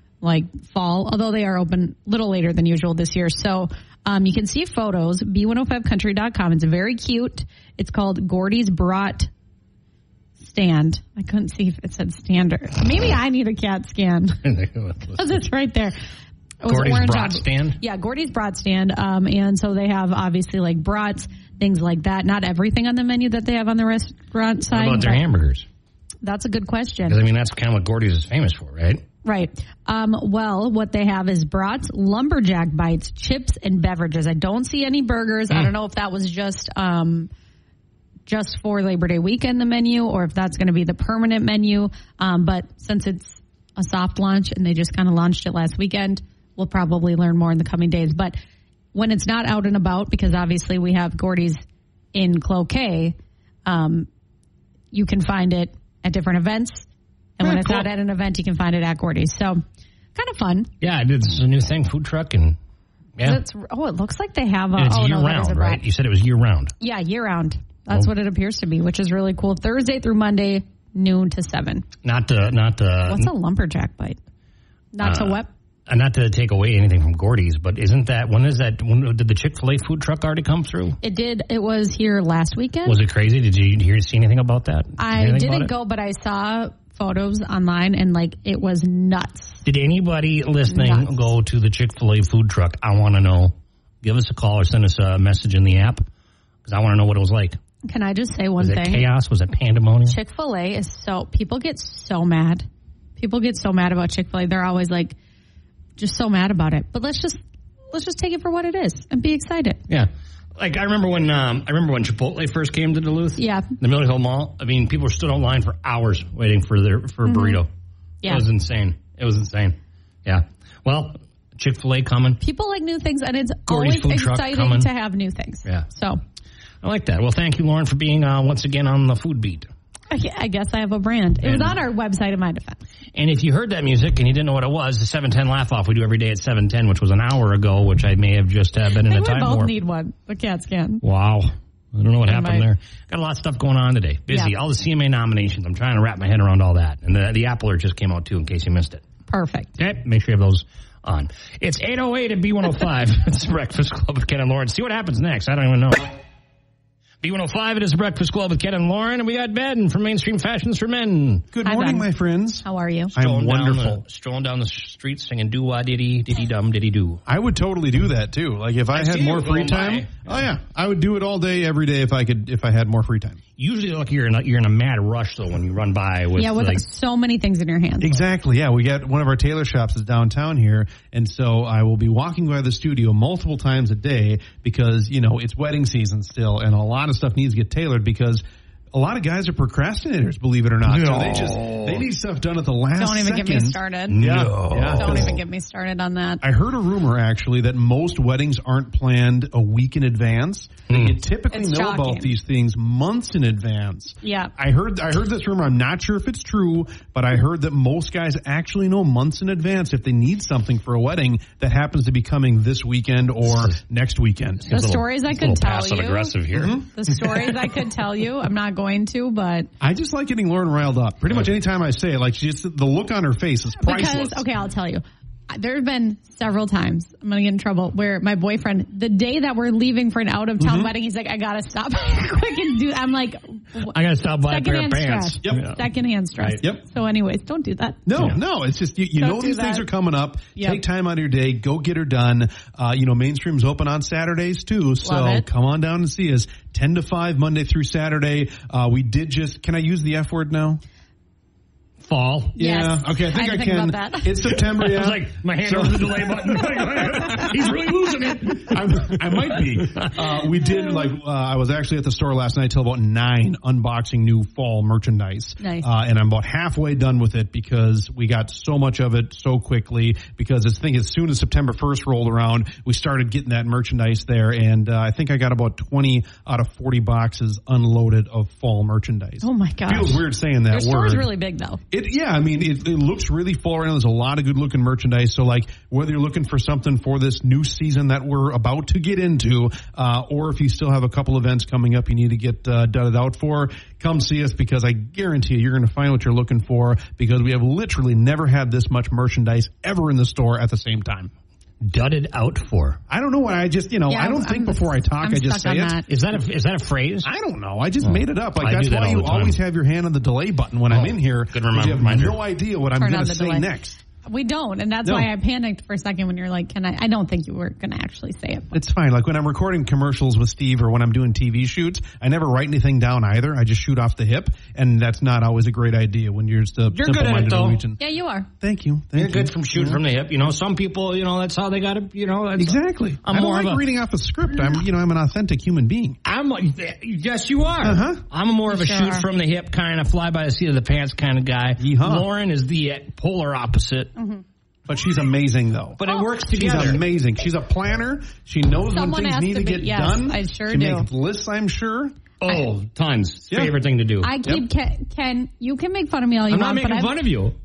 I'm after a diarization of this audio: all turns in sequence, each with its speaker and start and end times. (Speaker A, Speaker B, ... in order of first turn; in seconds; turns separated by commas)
Speaker A: 0.2-9.3, Speaker A: 10.4-14.4, Speaker B: 14.4-15.3, Speaker A: 15.2-16.0, Speaker A: 16.6-25.2, Speaker B: 16.6-17.8, Speaker B: 24.7-25.7, Speaker A: 26.2-27.2, Speaker B: 27.1-29.0, Speaker A: 29.2-37.3, Speaker A: 38.3-48.4, Speaker A: 48.9-51.6, Speaker A: 52.1-54.1, Speaker A: 54.9-56.9, Speaker A: 57.4-59.6, Speaker B: 57.4-57.9, Speaker A: 60.1-60.7, Speaker B: 60.8-62.6, Speaker A: 63.2-65.8, Speaker B: 64.8-66.8, Speaker A: 66.8-71.9, Speaker B: 72.0-73.3, Speaker A: 73.1-74.2, Speaker A: 74.9-75.5, Speaker B: 75.0-81.0, Speaker A: 81.0-83.0, Speaker B: 82.8-85.7, Speaker A: 85.0-89.6, Speaker B: 89.7-96.0, Speaker A: 90.7-91.2, Speaker B: 96.7-97.6, Speaker A: 97.8-99.0, Speaker B: 98.6-100.2, Speaker A: 100.1-102.7, Speaker A: 103.2-105.2, Speaker A: 106.0-107.4, Speaker A: 107.9-109.8, Speaker B: 109.9-117.7, Speaker A: 113.4-113.7, Speaker A: 117.2-117.6, Speaker B: 118.2-122.4, Speaker A: 122.4-126.2, Speaker B: 123.7-124.9, Speaker B: 126.8-129.7, Speaker A: 130.1-132.8, Speaker B: 131.4-131.8, Speaker B: 133.2-139.7, Speaker A: 139.0-141.0, Speaker B: 141.0-149.0, Speaker A: 142.3-142.7, Speaker A: 149.3-149.7, Speaker B: 149.8-156.2, Speaker B: 157.2-161.5, Speaker C: 161.5-164.0, Speaker A: 161.7-162.1, Speaker A: 162.6-163.1, Speaker B: 163.2-167.2, Speaker C: 167.3-173.4, Speaker B: 168.9-170.4, Speaker B: 173.6-176.8, Speaker A: 176.4-178.2, Speaker C: 178.0-195.4, Speaker B: 190.9-192.1, Speaker A: 192.9-196.4, Speaker B: 194.1-195.4, Speaker C: 196.4-214.7, Speaker B: 200.9-201.2, Speaker A: 201.5-202.3, Speaker A: 204.2-204.5, Speaker B: 213.4-213.8, Speaker B: 214.6-216.8, Speaker A: 214.7-216.4, Speaker C: 216.5-217.0, Speaker A: 216.9-219.7, Speaker C: 219.8-224.4, Speaker A: 223.8-238.2, Speaker C: 230.6-230.9, Speaker B: 233.8-235.8, Speaker C: 235.4-235.7, Speaker C: 238.1-250.8, Speaker A: 239.2-239.9, Speaker A: 240.6-240.8, Speaker A: 245.0-245.5, Speaker B: 252.0-252.6, Speaker C: 252.6-257.8, Speaker A: 252.6-254.6, Speaker B: 254.7-260.5, Speaker C: 258.6-281.3, Speaker A: 265.6-265.9, Speaker A: 279.4-281.8, Speaker C: 281.9-301.3, Speaker B: 301.8-303.0, Speaker C: 303.1-306.0, Speaker A: 304.1-306.1, Speaker B: 306.1-307.3, Speaker C: 307.2-314.0, Speaker B: 308.0-309.6, Speaker B: 310.9-312.4, Speaker A: 313.0-313.7, Speaker A: 314.2-318.8, Speaker C: 318.7-328.0, Speaker B: 326.9-327.8, Speaker A: 328.0-328.5, Speaker C: 328.6-330.0, Speaker B: 329.1-333.9, Speaker C: 332.6-336.2, Speaker B: 336.2-344.2, Speaker C: 337.8-338.2, Speaker A: 338.7-339.3, Speaker C: 341.8-342.3, Speaker A: 344.2-344.4, Speaker C: 344.9-352.1, Speaker B: 346.0-347.0, Speaker A: 348.9-351.1, Speaker B: 352.4-354.3, Speaker C: 353.5-353.8, Speaker A: 354.2-357.2, Speaker B: 356.5-357.6